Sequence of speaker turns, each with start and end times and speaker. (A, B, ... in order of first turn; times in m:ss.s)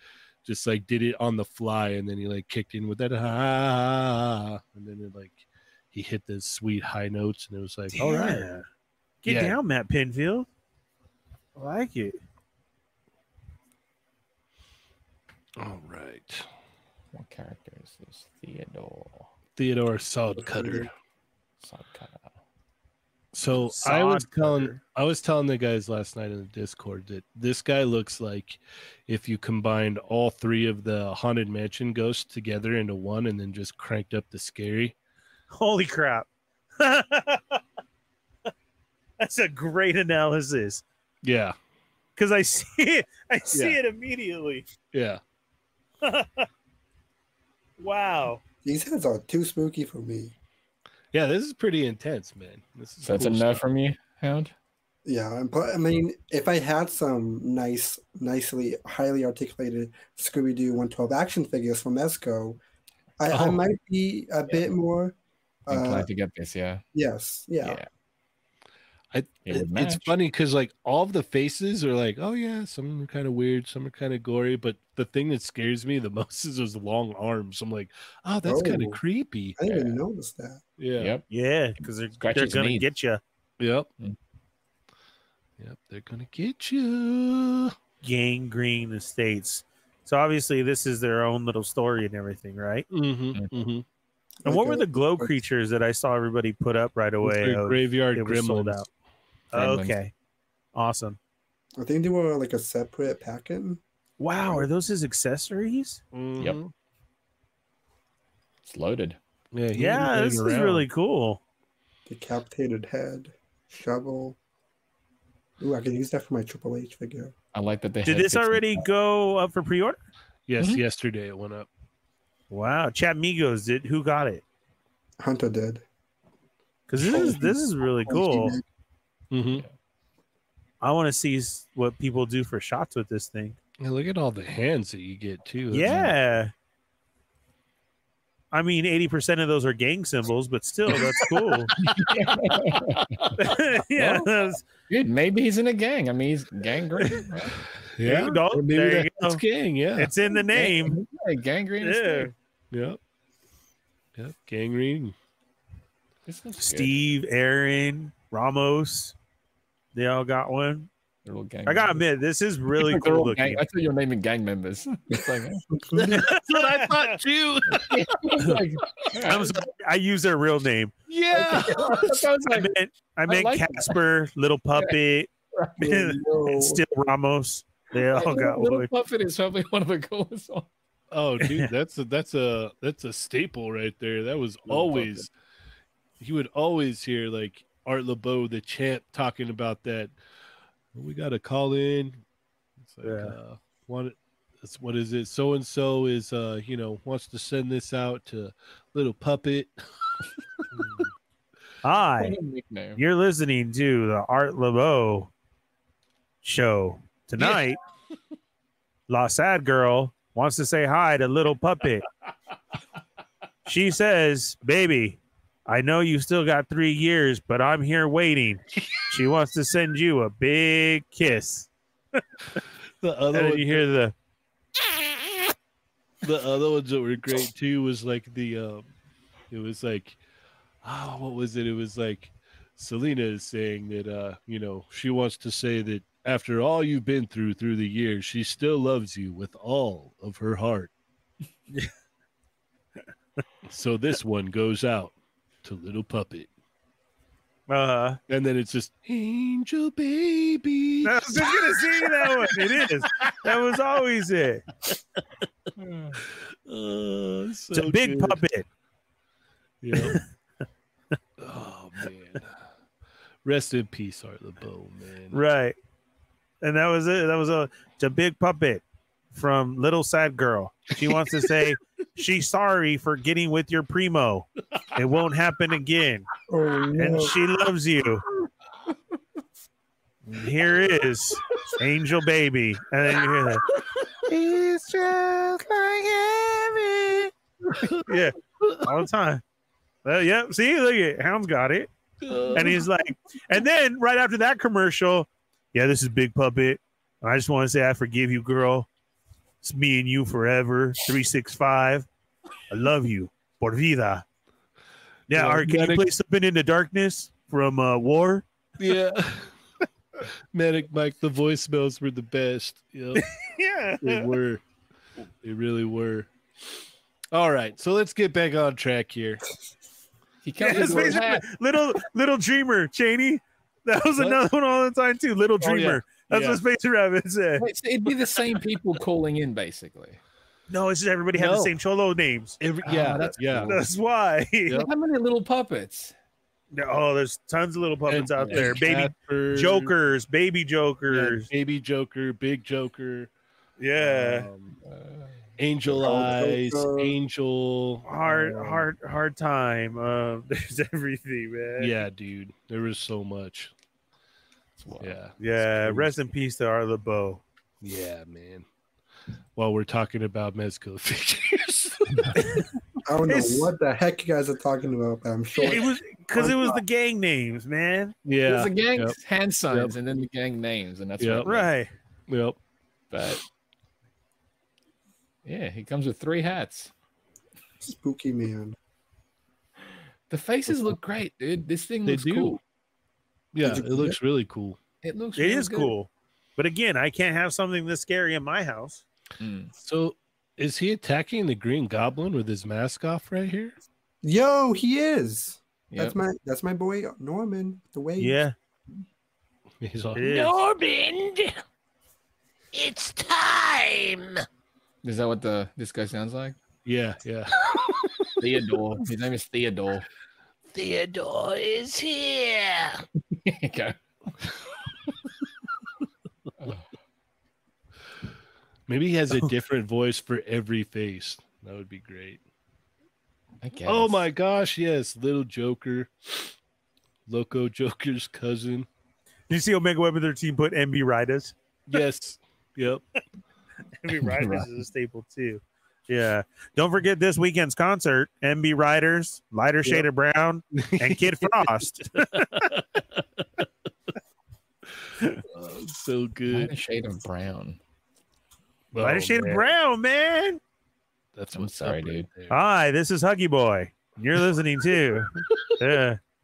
0:00.4-0:08.5 A
0:07.9-0:08.6 B
0:09.2-0:10.5 B
0:09.2-0:09.6 A
0:11.6-0:12.2 B
0:15.6-0:16.5 A
0:17.1-0:19.3 C
0:19.6-0:20.9 A
0:21.6-0:22.3 C
0:23.3-0:35.0 A
0:23.6-0:24.8 B
0:35.5-0:36.3 B
0:36.8-0:37.6 B
0:39.2-0:40.8 B
0:41.2-0:41.5 A
0:42.2-0:44.7 B
0:43.5-0:43.8 A
0:44.9-0:45.2 A
0:46.0-0:46.5 B
0:47.8-0:48.4 B
0:48.6-0:50.3 D
0:51.1-0:53.6 A
0:53.0-0:54.5 C
0:55.0-1:02.6 D
1:03.2-1:05.2 D
1:03.3-1:03.6 A
1:05.7-1:06.1 D
1:05.7-1:06.8 C
1:06.9-1:07.8 D
1:07.6-1:07.9 C
1:09.1-1:19.9 A
1:09.4-1:10.1 C
1:18.4-1:19.0 D
1:19.6-1:20.6 D
1:20.8-1:21.1 A
1:21.0-1:21.2 C
1:21.3-1:23.2 B
1:21.8-1:22.9 C
1:23.6-1:23.9 A
1:25.6-1:27.7 A
1:28.0-1:32.9 B
1:32.9-1:33.8 A
1:34.4-1:35.4 D
1:34.4-1:38.8 B
1:37.2-1:38.8 A
1:39.5-1:40.0 C
1:39.5-1:40.1 B
1:40.7-1:41.2 B
1:41.8-1:43.8 D
1:44.2-1:46.0 B
1:46.1-1:46.7 A
1:48.6-1:49.2 C
1:49.5-1:50.8 A
1:49.7-1:51.4 B
1:52.1-1:54.4 D
1:55.6-1:57.3 D
1:57.5-1:58.8 C
1:58.0-2:00.0 B
2:00.5-2:01.7 A
2:02.5-2:04.4 B
2:05.2-2:05.8 D
2:06.9-2:08.6 B
2:07.0-2:08.6 D
2:09.3-2:09.6 A
2:10.8-2:13.6 B
2:13.8-2:16.0 A
2:15.7-2:16.5 B
2:15.8-2:16.1 C
2:18.5-2:21.7 B
2:21.7-2:23.4 C
2:23.4-2:24.6 B
2:23.9-2:24.3 C
2:24.9-2:27.6 C
2:27.9-2:30.1 A
2:28.0-2:29.4 B
2:30.0-2:31.0 B
2:30.5-2:32.3 C
2:31.8-2:32.3 B
2:32.7-2:33.0 A
2:34.2-2:35.1 A
2:36.2-2:37.0 C
2:36.6-2:39.1 B
2:39.9-2:40.9 B
2:41.2-2:42.0 C
2:41.6-2:43.6 B
2:42.8-2:45.6 C
2:45.7-2:46.2 D
2:45.9-2:48.0 A
2:46.1-2:47.2 B
2:47.7-2:49.6 C
2:49.2-2:50.9 B
2:51.1-2:52.2 A
2:51.3-2:52.7 C
2:52.5-2:55.3 B
2:53.3-2:54.0 C
2:55.8-2:56.8 D
2:55.8-2:58.9 B
2:58.0-3:00.7 C
3:01.1-3:05.3 A
3:01.4-3:01.7 B
3:04.7-3:05.3 C
3:06.2-3:10.1 A
3:10.9-3:12.2 A
3:12.8-3:19.7 A
3:13.0-3:13.3 B
3:21.8-3:22.4 B
3:22.2-3:23.0 C
3:23.0-3:25.3 B
3:26.4-3:27.8 B
3:29.1-3:32.0 B
3:33.6-3:42.2 B
3:43.0-3:43.9 A
3:43.3-3:44.1 B
3:46.2-3:48.8 A
3:49.5-3:50.2 A
3:50.8-4:00.9 A
4:03.7-4:06.5 A
4:07.7-4:08.2 B
4:08.3-4:13.5 A
4:11.0-4:14.6 B
4:15.8-4:16.2 C
4:16.7-4:18.4 A
4:17.7-4:18.6 B
4:19.8-4:20.2 A
4:19.9-4:20.2 B
4:21.4-4:22.6 A
4:23.4-4:25.4 A
4:25.3-4:25.8 B
4:26.6-4:36.2 B
4:36.5-4:37.3 D
4:37.0-4:38.2 B
4:40.3-4:43.6 B
4:45.6-4:47.2 E
4:47.8-4:48.1 A
4:48.0-4:49.4 B
4:50.0-4:51.9 B
4:52.2-4:52.8 A
4:52.5-4:58.9 B
4:59.6-5:02.1 B
5:02.7-5:04.2 B
5:05.3-5:08.4 B
5:05.3-5:06.1 A
5:08.8-5:09.5 A
5:10.5-5:13.3 A
5:13.2-5:14.3 B
5:14.0-5:14.6 A
5:15.4-5:16.3 A
5:17.3-5:19.4 A
5:20.4-5:21.5 C
5:20.6-5:27.6 B
5:20.7-5:21.2 A
5:25.6-5:26.6 A
5:27.6-5:30.2 C
5:30.7-5:32.6 B
5:31.3-5:31.7 A
5:32.6-5:33.8 A
5:32.8-5:33.8 C
5:33.7-5:34.8 B
5:34.7-5:36.1 C
5:36.7-5:41.5 B
5:38.1-5:39.9 A
5:38.4-5:38.8 C
5:41.1-5:43.3 A
5:43.8-5:44.5 B
5:44.0-5:44.8 A
5:44.8-5:45.3 C
5:45.6-5:48.1 A
5:46.0-5:47.2 D
5:48.0-5:52.0 B
5:48.2-5:48.8 D
5:51.8-5:53.7 A
5:54.8-5:55.2 C
5:55.0-5:56.1 A
5:55.4-5:57.4 B
5:57.8-5:58.6 A
5:59.6-6:02.4 A
6:02.4-6:02.7 B
6:03.0-6:06.8 D
6:03.3-6:03.7 B
6:05.6-6:08.1 B
6:08.2-6:09.2 A
6:08.4-6:11.7 C
6:09.7-6:09.9 A
6:11.2-6:11.5 A
6:11.4-6:11.9 B
6:12.3-6:12.6 A
6:13.1-6:13.4 C
6:15.4-6:16.9 C
6:17.8-6:18.8 D
6:20.3-6:22.6 C
6:22.0-6:22.6 A
6:23.5-6:24.8 A
6:23.6-6:24.2 D
6:25.0-6:25.9 C
6:25.4-6:29.0 B
6:29.4-6:29.7 C
6:29.8-6:33.8 A
6:34.2-6:38.4 D
6:35.9-6:36.2 C
6:38.2-6:38.5 B
6:39.8-6:40.3 A
6:40.2-6:40.6 B
6:40.2-6:41.5 E
6:42.7-6:44.4 E
6:45.0-6:46.6 C
6:46.8-6:47.5 A
6:47.6-6:48.0 E
6:48.4-6:50.1 C
6:50.7-6:53.0 E
6:53.3-6:54.0 C
6:58.9-7:02.4 A
7:03.6-7:04.2 C
7:03.8-7:06.5 A
7:07.3-7:08.9 A
7:09.5-7:11.5 B
7:11.9-7:13.0 A
7:14.0-7:22.7 B
7:14.1-7:14.7 C
7:20.7-7:23.6 A
7:25.5-7:26.7 A
7:26.5-7:27.8 C
7:28.9-7:29.7 A
7:29.0-7:30.6 B
7:31.3-7:32.6 A
7:31.5-7:32.3 C
7:32.5-7:36.2 B